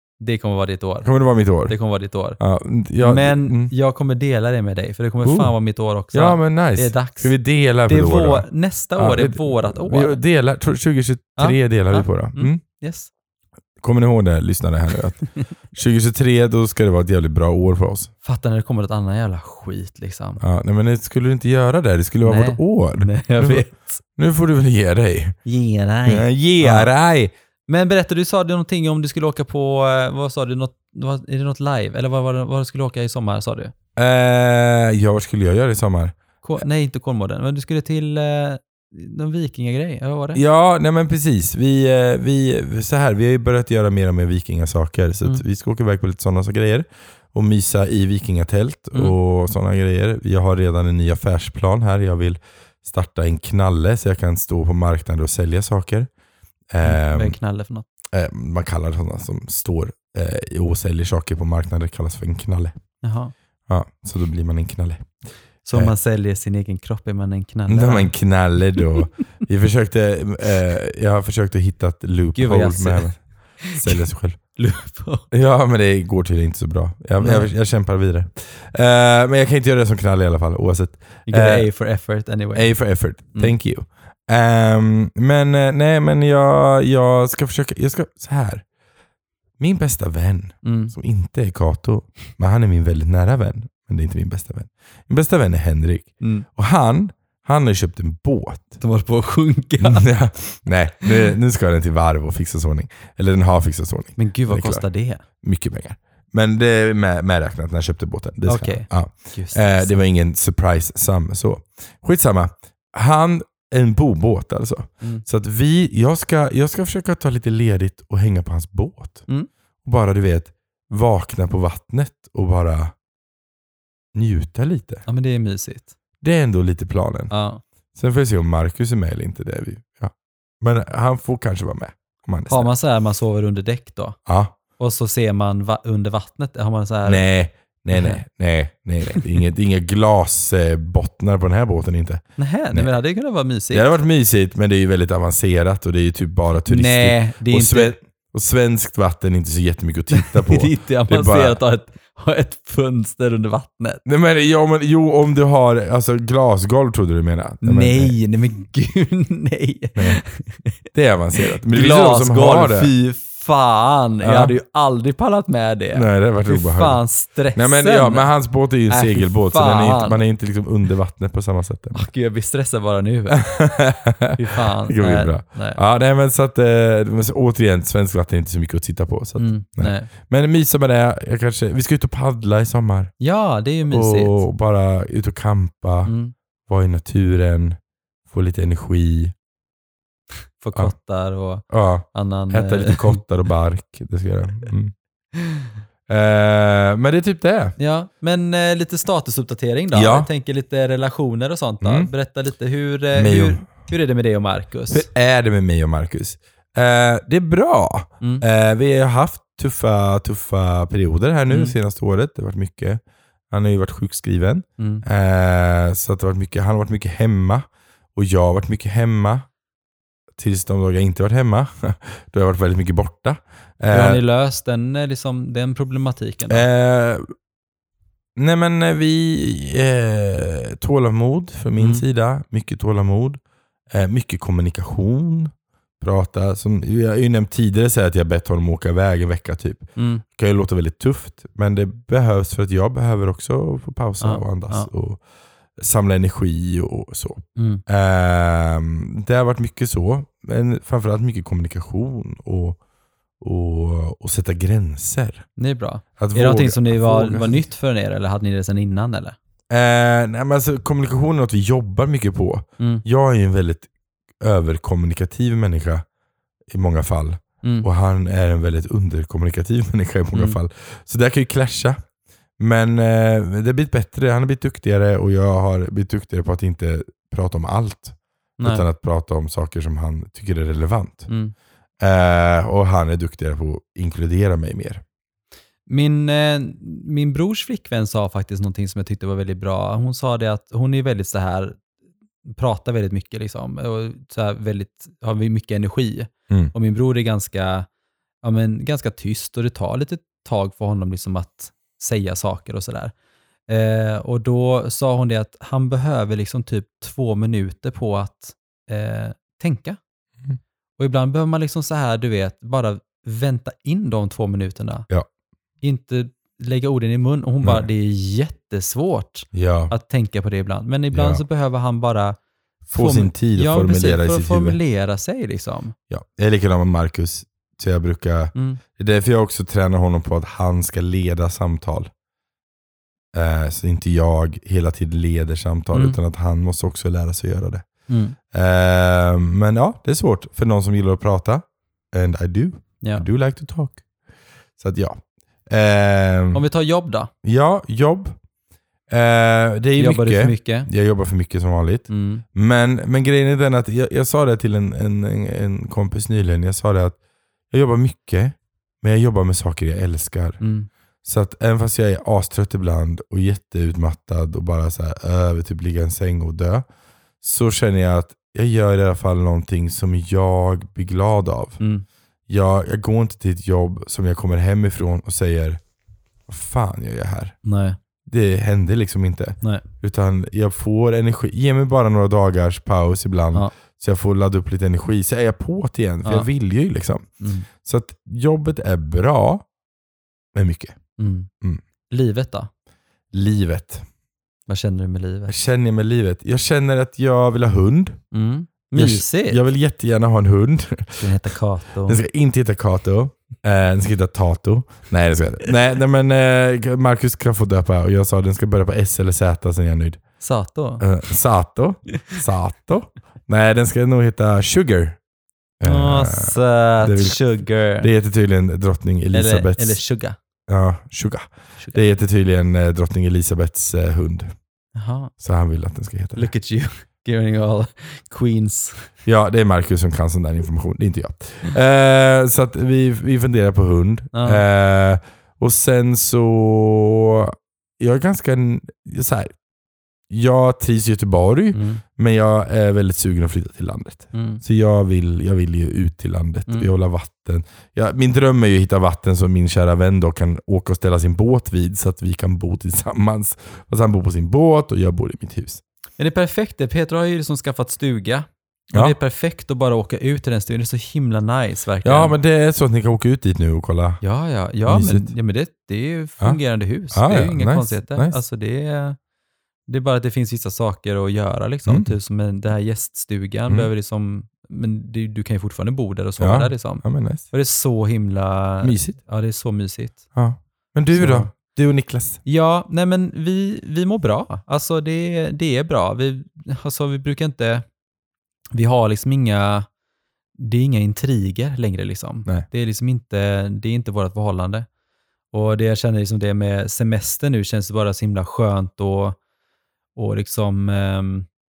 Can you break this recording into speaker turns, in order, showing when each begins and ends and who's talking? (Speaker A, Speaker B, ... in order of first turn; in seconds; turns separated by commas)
Speaker A: 0.2-1.1, Speaker B: 1.0-1.8, Speaker A: 1.7-2.4, Speaker B: 2.4-3.7, Speaker A: 3.0-7.3, Speaker B: 5.2-5.5, Speaker B: 6.1-8.5, Speaker A: 7.9-10.2, Speaker B: 9.0-12.6, Speaker A: 11.4-13.1, Speaker B: 13.8-18.1, Speaker A: 18.2-20.4, Speaker B: 20.4-23.6, Speaker A: 22.2-24.0, Speaker B: 24.2-25.4, Speaker A: 25.4-26.9, Speaker B: 26.1-27.3, Speaker A: 27.7-33.7, Speaker B: 34.0-36.6, Speaker A: 36.4-40.4, Speaker B: 40.4-56.1, Speaker B: 56.7-57.4, Speaker A: 56.8-57.9, Speaker B: 58.1-62.8, Speaker A: 63.0-63.3, Speaker B: 63.7-65.2, Speaker A: 65.7-68.1, Speaker B: 67.7-74.4, Speaker A: 72.3-75.3, Speaker B: 75.3-81.7, Speaker A: 77.2-77.5, Speaker A: 81.3-82.8, Speaker B: 82.5-88.7, Speaker B: 89.6-98.8, Speaker A: 90.6-90.9, Speaker A: 98.8-100.2, Speaker B: 99.8-104.9, Speaker A: 104.2-105.2, Speaker B: 105.4-119.3, Speaker A: 108.5-109.9, Speaker B: 119.8-122.9, Speaker B: 124.1-125.0, Speaker A: 125.1-125.9, Speaker B: 126.2-127.3, Speaker A: 127.3-127.6, Speaker B: 128.0-132.7, Speaker A: 132.5-134.2, Speaker B: 134.3-134.5, Speaker A: 134.8-137.3, Speaker B: 137.1-142.2, Speaker A: 137.9-138.2, Speaker A: 142.4-143.9, Speaker B: 143.7-151.6, Speaker A: 146.7-148.0, Speaker A: 150.1-154.0, Speaker B: 154.1-158.2, Speaker A: 157.6-160.8, Speaker B: 160.0-160.2, Speaker B: 160.9-162.9, Speaker A: 161.4-168.3, Speaker B: 164.2-164.5, Speaker B: 165.9-167.0, Speaker B: 167.6-172.1, Speaker A: 168.9-170.2, Speaker A: 171.9-173.7, Speaker B: 173.3-183.1, Speaker A: 174.4-175.8, Speaker A: 179.4-180.1, Speaker A: 183.2-184.4, Speaker B: 183.9-186.1, Speaker A: 186.1-186.3, Speaker B: 186.7-187.8, Speaker B: 188.3-189.3, Speaker A: 190.6-193.2, Speaker B: 191.7-194.9, Speaker A: 195.4-195.7, Speaker B: 196.1-197.8, Speaker A: 197.8-205.1, Speaker B: 199.9-200.3, Speaker B: 201.8-202.1, Speaker B: 203.2-203.7, Speaker B: 204.9-219.5, Speaker A: 211.5-211.8, Speaker A: 214.8-215.0, Speaker B: 220.4-224.2, Speaker A: 223.9-226.7, Speaker B: 226.5-227.2, Speaker B: 228.4-233.4, Speaker A: 231.8-232.0, Speaker B: 233.9-245.2, Speaker A: 240.0-240.2, Speaker A: 244.2-244.9, Speaker B: 245.8-252.8, Speaker A: 247.6-247.8, Speaker B: 253.4-255.5, Speaker A: 255.6-259.4, Speaker B: 256.2-257.6, Speaker B: 259.7-263.9, Speaker A: 262.8-263.0, Speaker B: 264.4-266.1, Speaker B: 266.7-272.0, Speaker A: 267.6-267.9, Speaker A: 270.3-270.6, Speaker B: 272.6-281.3, Speaker A: 278.6-278.9, Speaker B: 282.0-285.0, Speaker A: 285.9-291.8, Speaker A: 292.4-297.9, Speaker A: 298.4-303.1, Speaker A: 303.7-310.0, Speaker A: 311.0-315.1, Speaker A: 315.8-325.9, Speaker B: 319.5-319.9, Speaker B: 321.1-321.4, Speaker B: 322.9-324.8, Speaker B: 326.1-332.1, Speaker A: 328.6-328.8, Speaker B: 333.3-337.9, Speaker A: 335.9-336.2, Speaker A: 338.1-338.4, Speaker B: 338.5-344.0, Speaker A: 343.0-343.3, Speaker B: 344.8-345.2, Speaker B: 345.7-346.6, Speaker A: 346.5-347.3, Speaker B: 347.4-348.4, Speaker B: 349.1-357.2, Speaker A: 350.0-350.9, Speaker A: 352.1-352.4, Speaker B: 357.7-360.6, Speaker A: 360.6-360.9, Speaker B: 361.2-366.9, Speaker B: 367.4-371.8, Speaker A: 371.8-372.1, Speaker B: 372.5-375.8, Speaker B: 376.5-377.6, Speaker A: 377.6-378.0, Speaker B: 378.3-387.3, Speaker A: 387.4-387.7, Speaker B: 387.8-389.6, Speaker B: 390.5-391.0, Speaker A: 391.2-391.5, Speaker A: 392.1-392.7, Speaker B: 393.3-394.1, Speaker A: 394.7-395.5, Speaker B: 395.5-398.2, Speaker A: 398.3-399.6, Speaker B: 398.9-401.4, Speaker A: 401.2-402.2, Speaker B: 402.1-410.2, Speaker A: 410.4-411.1, Speaker B: 411.0-415.2, Speaker B: 415.8-417.4, Speaker A: 415.8-418.1, Speaker B: 418.0-420.0, Speaker A: 419.3-420.4, Speaker B: 420.7-424.5, Speaker A: 424.9-425.3, Speaker B: 425.4-426.5, Speaker A: 426.4-429.1, Speaker B: 429.2-439.6, Speaker A: 434.3-434.6, Speaker B: 440.3-455.8, Speaker A: 441.7-442.0, Speaker A: 444.3-444.6, Speaker A: 456.2-462.4, Speaker B: 462.0-464.2, Speaker A: 464.2-469.2, Speaker B: 464.9-465.3, Speaker B: 467.1-468.4, Speaker A: 469.9-480.2, Speaker B: 471.9-472.1, Speaker B: 476.4-477.5, Speaker B: 478.8-479.2, Speaker B: 480.3-482.4, Speaker A: 481.1-481.5, Speaker A: 482.4-487.8, Speaker A: 488.8-489.9, Speaker A: 490.6-494.9, Speaker A: 495.5-499.4, Speaker A: 500.1-501.5